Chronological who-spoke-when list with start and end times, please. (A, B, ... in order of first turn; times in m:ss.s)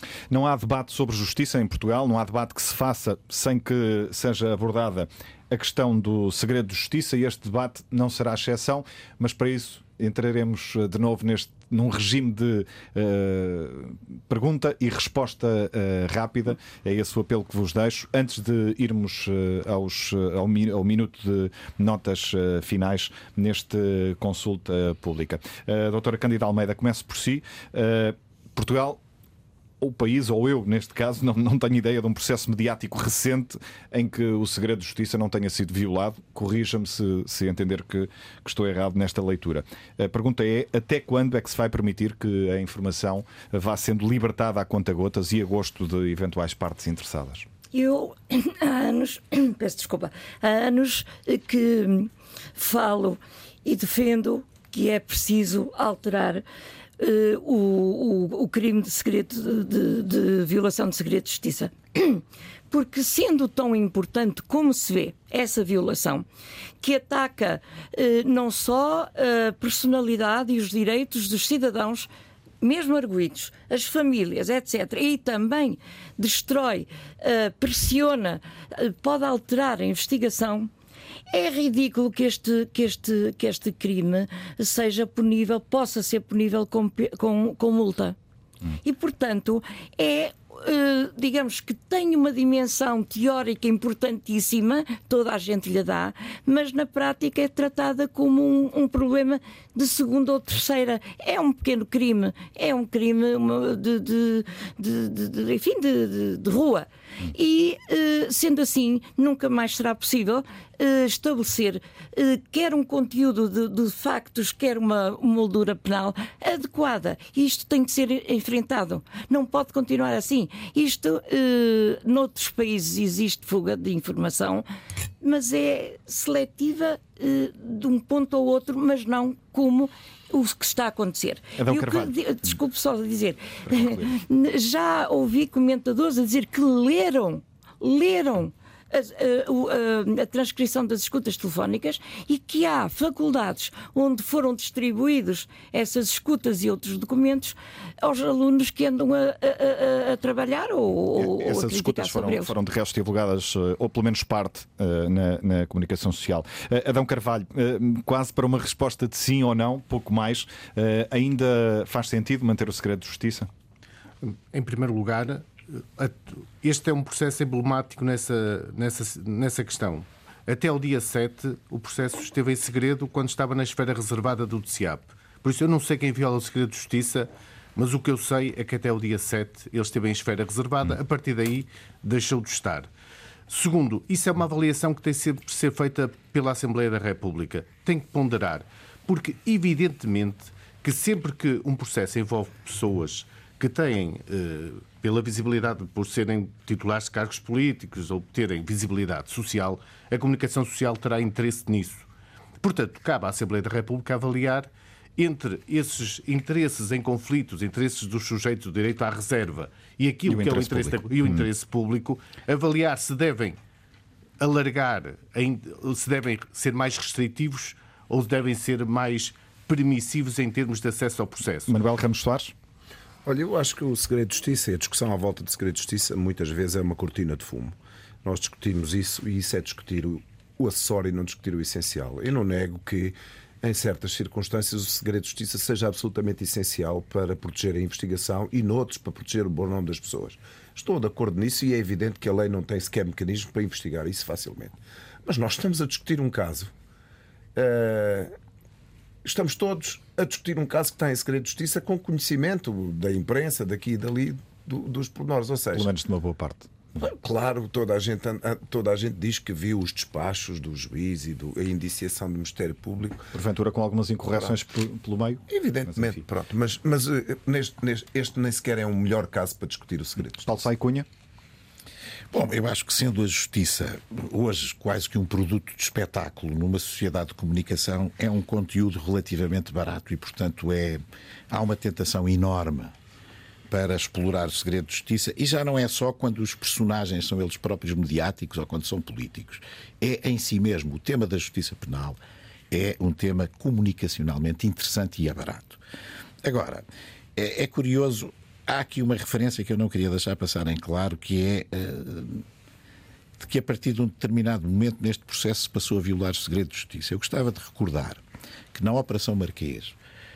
0:00.3-0:29.0 A
0:29.8-0:47.5 A
0:47.7-0:56.4 B
0:57.0-1:06.2 B
1:06.8-1:12.1 B
1:12.6-1:20.7 B
1:21.3-1:28.2 B
1:28.8-2:04.6 B
2:05.2-2:32.5 B
2:11.6-2:12.1 A
2:13.7-2:14.2 A
2:31.2-2:43.5 A
2:44.2-3:02.9 C
3:03.5-3:22.0 C
3:22.6-3:33.6 C
3:30.2-3:31.4 A
3:34.4-3:41.7 C
3:41.7-3:42.5 A
3:43.2-4:06.7 D
4:07.5-4:08.3 D
4:09.2-4:15.9 D
4:15.7-4:16.7 A
4:17.0-4:23.3 D
4:23.3-4:25.4 A
4:25.5-4:30.6 D
4:30.4-4:31.1 A
4:32.3-4:42.9 E
4:43.7-4:52.2 E
4:52.7-4:55.8 E
4:56.4-4:56.8 E
4:57.4-5:02.4 E
5:03.4-5:08.2 E
5:08.7-5:10.0 E